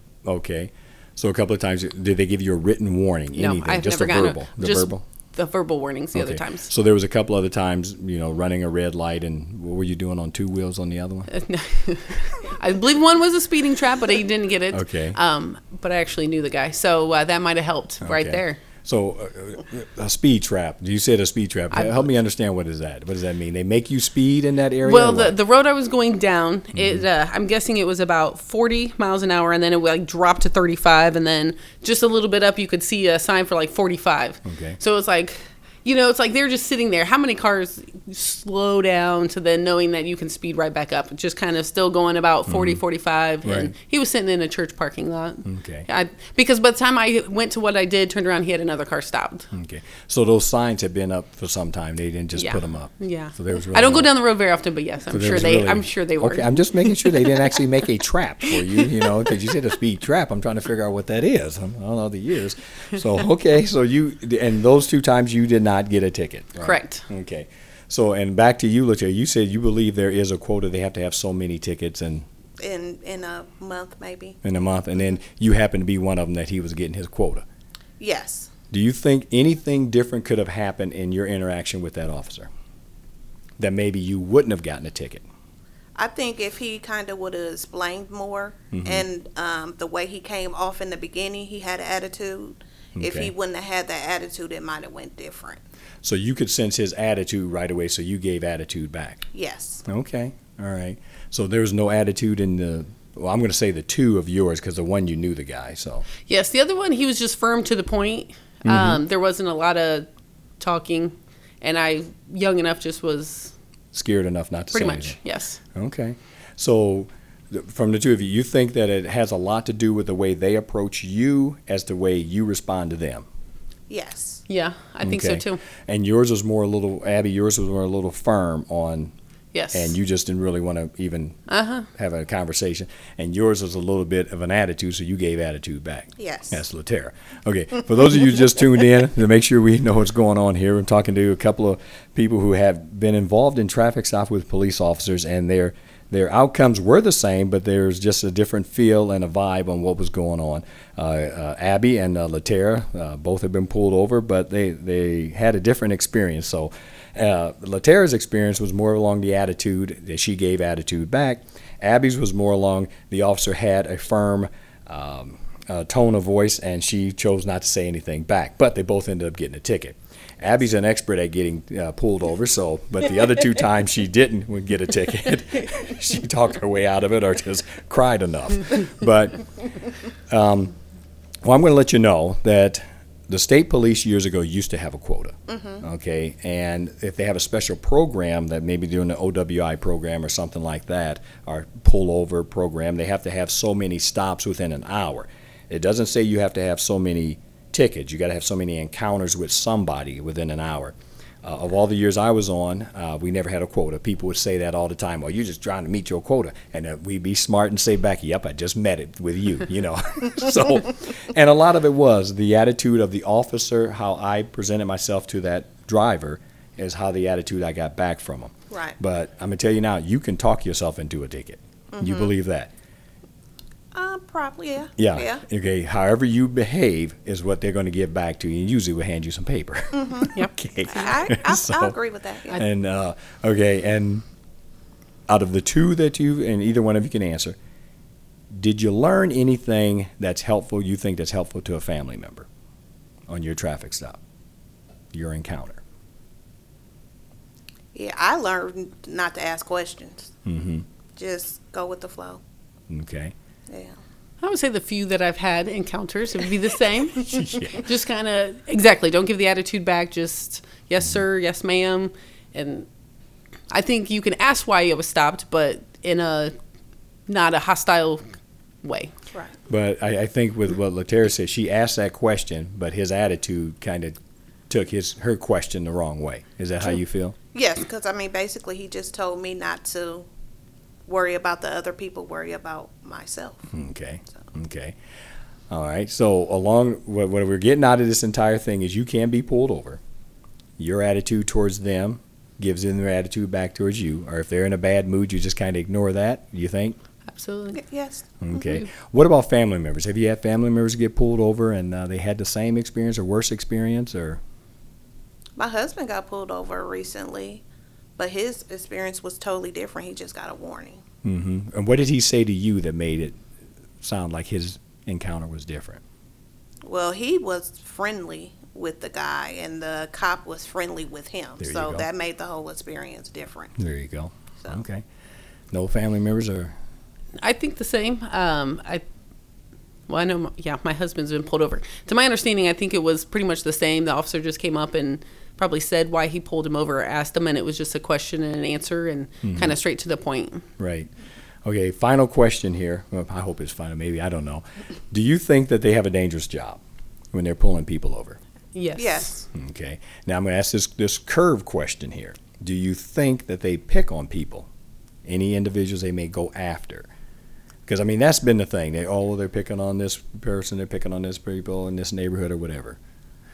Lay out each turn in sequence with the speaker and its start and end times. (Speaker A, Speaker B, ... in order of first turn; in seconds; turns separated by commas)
Speaker A: 0.2-5.0, Speaker B: 3.4-6.7, Speaker A: 6.1-11.3, Speaker B: 11.3-18.6, Speaker A: 14.7-15.2, Speaker A: 18.0-25.4, Speaker B: 21.7-22.1, Speaker B: 24.8-49.5, Speaker A: 26.8-27.1, Speaker A: 34.5-34.8, Speaker A: 42.5-42.8, Speaker A: 43.4-43.7, Speaker A: 45.5-45.9, Speaker A: 49.5-54.1, Speaker B: 52.4-57.6, Speaker A: 55.1-72.3, Speaker B: 58.5-59.1, Speaker B: 66.6-67.0, Speaker C: 72.6-74.4, Speaker A: 74.4-77.5, Speaker C: 78.0-78.5, Speaker A: 78.7-82.5, Speaker A: 83.6-85.2, Speaker C: 86.0-95.6, Speaker A: 88.7-89.1, Speaker A: 93.0-93.3, Speaker A: 96.0-99.2, Speaker C: 99.3-99.8, Speaker A: 99.8-106.1, Speaker B: 106.3-110.1, Speaker A: 108.7-109.0, Speaker B: 110.6-113.5, Speaker A: 113.9-115.2, Speaker B: 114.7-115.6, Speaker A: 115.7-123.3, Speaker C: 123.9-124.4, Speaker B: 124.5-125.6, Speaker A: 125.0-129.1, Speaker B: 129.5-129.9, Speaker A: 129.7-131.4, Speaker B: 131.5-131.9, Speaker A: 131.9-179.5, Speaker C: 136.2-136.6, Speaker A: 180.3-180.8, Speaker A: 181.4-222.7, Speaker C: 185.5-185.8, Speaker C: 218.7-219.0, Speaker C: 221.9-222.3, Speaker C: 223.9-225.4, Speaker A: 225.0-231.9, Speaker C: 229.9-230.3, Speaker C: 230.9-232.6, Speaker A: 232.5-234.2, Speaker A: 235.3-237.6, Speaker A: 238.5-242.5, Speaker A: 243.3-244.2, Speaker A: 245.1-245.8, Speaker C: 247.9-250.3, Speaker A: 250.5-250.9, Speaker C: 251.2-252.4, Speaker A: 252.9-253.3, Speaker C: 253.7-253.9, Speaker B: 254.4-262.9, Speaker A: 257.2-257.9, Speaker B: 263.7-266.5, Speaker B: 267.3-269.1, Speaker A: 269.7-274.2, Speaker A: 274.7-277.4, Speaker C: 277.5-280.3, Speaker C: 281.1-283.7, Speaker A: 283.7-285.0, Speaker A: 285.7-290.0, Speaker A: 290.8-297.0, Speaker B: 297.3-297.8, Speaker C: 297.8-298.8, Speaker A: 298.4-304.4, Speaker C: 305.6-307.6, Speaker C: 308.2-311.0, Speaker A: 311.2-313.4, Speaker A: 314.0-316.0, Speaker C: 316.9-323.8, Speaker A: 321.6-322.1, Speaker A: 323.8-325.1, Speaker A: 325.7-326.7, Speaker B: 327.4-329.0, Speaker B: 330.1-340.7, Speaker A: 339.4-339.8, Speaker A: 340.8-341.1, Speaker A: 341.6-346.8, Speaker A: 347.3-348.4, Speaker B: 348.8-349.4, Speaker C: 349.0-349.4, Speaker A: 349.5-354.7, Speaker A: 355.2-357.1, Speaker A: 357.9-363.0